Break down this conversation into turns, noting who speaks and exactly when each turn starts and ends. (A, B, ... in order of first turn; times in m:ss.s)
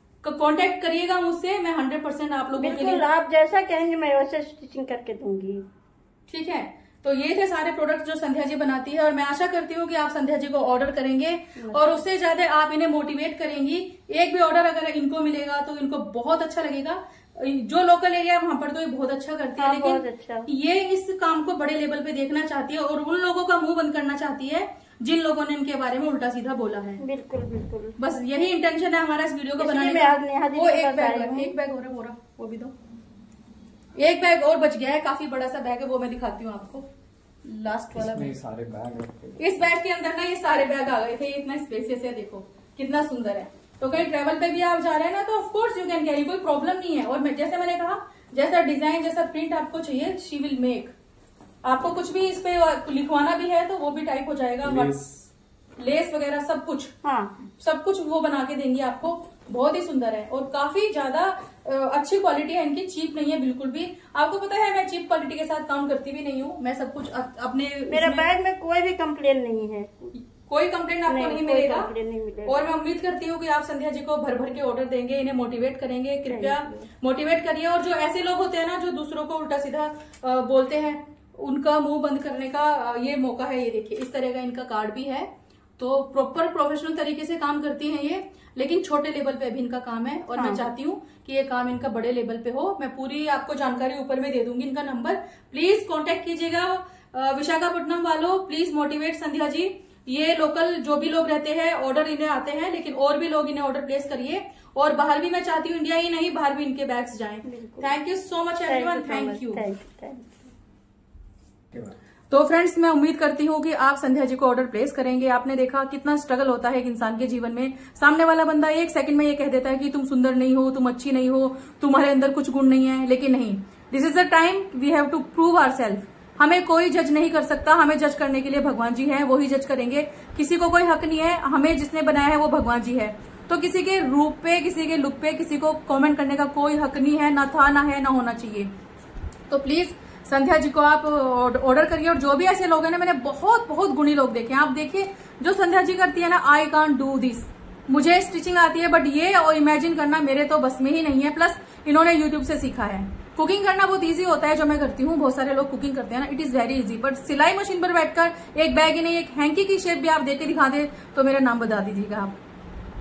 0:00.2-0:03.0 A
0:02.6-0:05.6 B
0:06.3-0:27.0 A
0:11.6-0:12.0 B
0:19.6-0:20.5 B
0:27.0-0:28.0 B
0:28.0-0:32.7 A
0:29.6-0:31.5 B
0:34.0-0:36.9 A
0:37.4-0:38.4 A
0:37.9-0:39.6 C
0:39.4-0:50.9 A
0:51.6-0:55.3 A
0:54.7-0:55.0 C
0:55.8-0:56.9 A
0:57.0-0:57.3 B
0:57.6-1:08.3 A
1:07.9-1:10.1 B
1:10.4-1:11.9 A
1:11.1-1:12.6 B
1:12.4-1:49.6 A
1:16.3-1:16.9 B
1:30.4-1:30.7 B
1:47.4-1:47.9 B
1:48.6-1:50.5 B
1:52.3-2:18.7 A
2:19.5-2:42.4 A